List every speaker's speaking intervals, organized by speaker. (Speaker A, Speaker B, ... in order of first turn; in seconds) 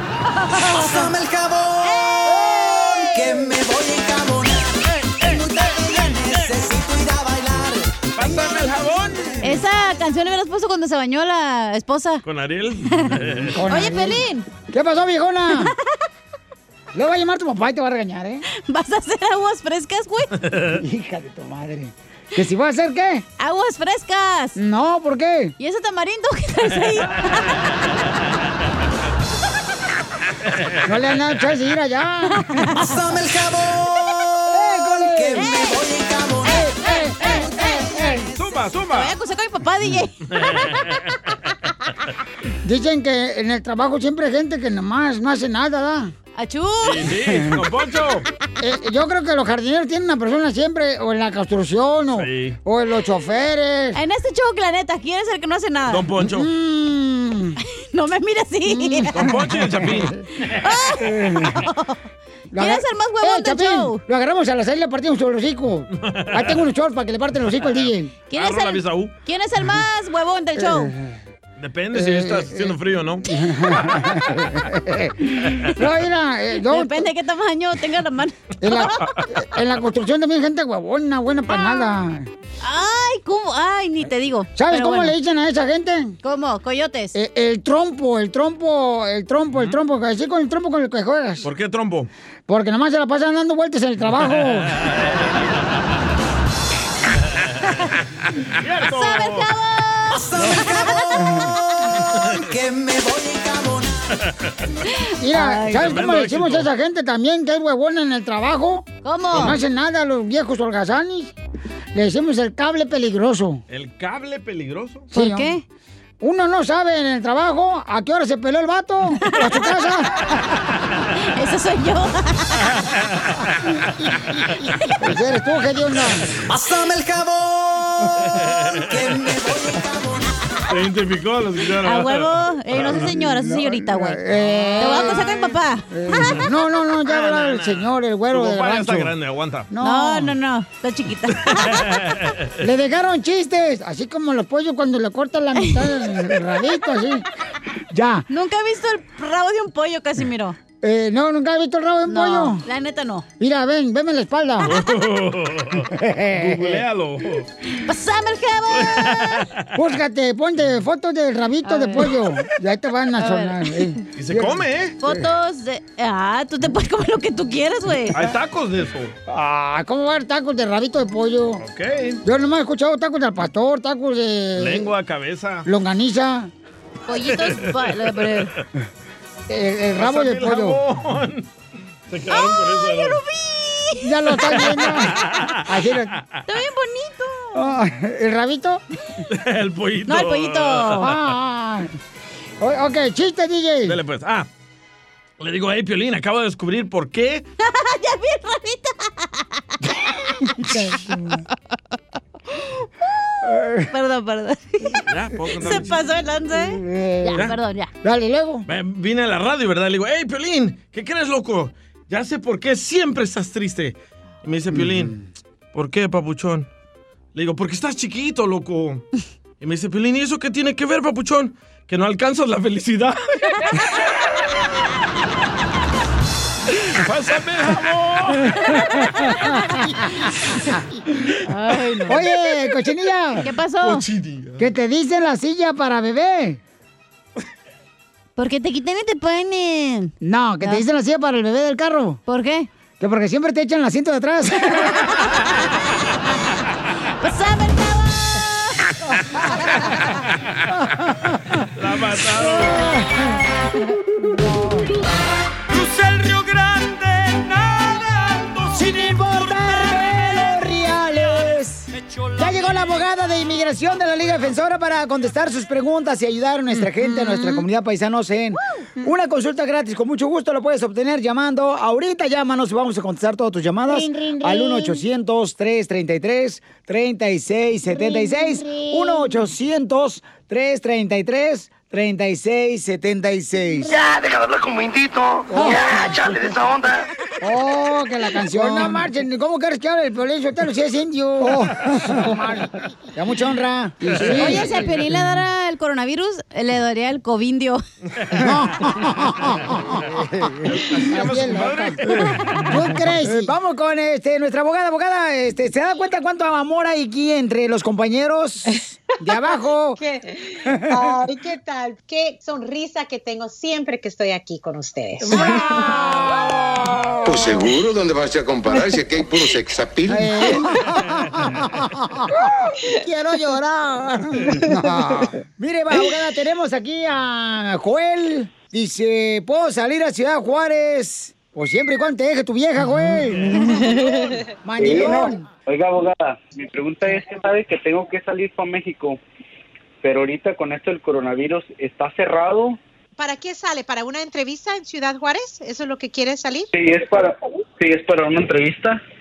Speaker A: 0.6-0.9, 9.4-12.2, 13.6-14.5, 18.5-20.3, 23.4-24.6, 25.6-27.7, 32.3-32.9, 35.3-35.8, 36.5-37.5, 38.9-40.8, 46.4-47.1, 53.9-56.1, 57.9-59.2, 60.5-62.0, 62.6-64.0, 68.3-70.9, 76.5-79.1, 81.5-82.0, 82.6-85.1, 86.2-87.1, 98.9-101.4, 105.1-106.0, 109.0-109.6, 115.1-115.6, 119.3-119.6, 121.2-122.6, 131.8-134.2, 134.8-136.5, 139.8-142.0, 148.3-150.6, 152.1-153.2, 157.8-159.4, 161.6-162.1, 163.2-163.8, 165.0-168.2, 177.1-178.5, 182.3-184.6, 186.5-187.6, 190.1-191.1, 197.6-200.9, 203.9-207.9, 231.5-232.3, 233.4-234.1, 238.4-240.1, 242.3-242.7, 245.1-245.3, 247.2-248.8, 273.9-275.0, 277.9-279.3, 294.1-297.8
Speaker B: 0.7-2.4, 3.0-8.1, 32.7-38.3, 100.1-101.4, 102.4-104.0, 126.5-128.3, 128.9-130.4
Speaker C: 2.4-3.0, 13.5-15.7, 16.9-18.4, 20.8-23.2, 24.6-25.5, 30.9-32.4, 34.5-35.5, 36.5-38.3, 42.6-46.1, 48.6-54.0, 56.2-57.6, 58.6-60.1, 61.1-61.6, 62.5-68.1, 70.5-71.1, 71.9-72.7, 73.3-77.1, 78.6-82.3, 84.5-86.2, 87.1-91.5, 92.5-94.8, 105.2-111.3, 111.9-113.6, 115.1-115.5, 116.2-120.1, 125.0-126.2, 133.1-139.1, 139.7-140.3, 142.6-147.2, 147.9-148.2, 150.8-152.6, 153.4-154.8, 155.9-156.8, 159.7-165.2, 169.3-171.6, 172.2-174.9, 175.7-176.5, 179.5-180.8, 184.0-186.1, 187.5-188.8, 191.0-191.9, 192.6-194.0, 200.6-201.4, 203.4-203.9, 206.5-207.5, 208.0-208.7, 214.7-215.1, 232.1-233.5, 234.6-236.6, 240.2-242.2, 243.0-245.2, 252.4-253.2, 258.7-284.0, 285.5-286.6, 287.4-294.9, 298.4-302.1, 302.6-310.0, 310.6-311.1, 315.2-317.7, 320.1-335.4
Speaker D: 8.1-9.4, 12.2-13.6, 20.5-20.8, 38.3-39.1, 40.3-41.0, 46.8-48.2, 52.1-52.6, 55.9-56.5, 59.1-60.5, 66.0-66.6, 67.6-69.1, 71.6-73.2, 91.4-92.1, 94.1-95.5, 98.5-99.5, 105.7-106.7, 113.7-115.1, 128.3-129.0, 130.7-133.1, 137.0-139.7, 141.4-142.5, 154.6-157.5, 158.7-159.8, 164.1-165.0, 168.1-169.2, 171.6-172.2, 174.5-175.7, 177.1-178.6, 179.9-181.5, 182.1-183.2, 184.6-186.2, 189.3-191.2, 193.8-194.5, 195.4-197.4, 205.1-206.0, 208.7-215.2, 215.7-216.7, 217.3-219.0, 219.6-223.6, 226.9-228.8, 233.9-234.6, 251.7-253.0, 300.6-302.8
Speaker E: 310.0-316.3, 343.2-346.7
Speaker F: 317.5-320.5
Speaker G: 334.8-339.2, 340.0-342.8, 346.7-349.0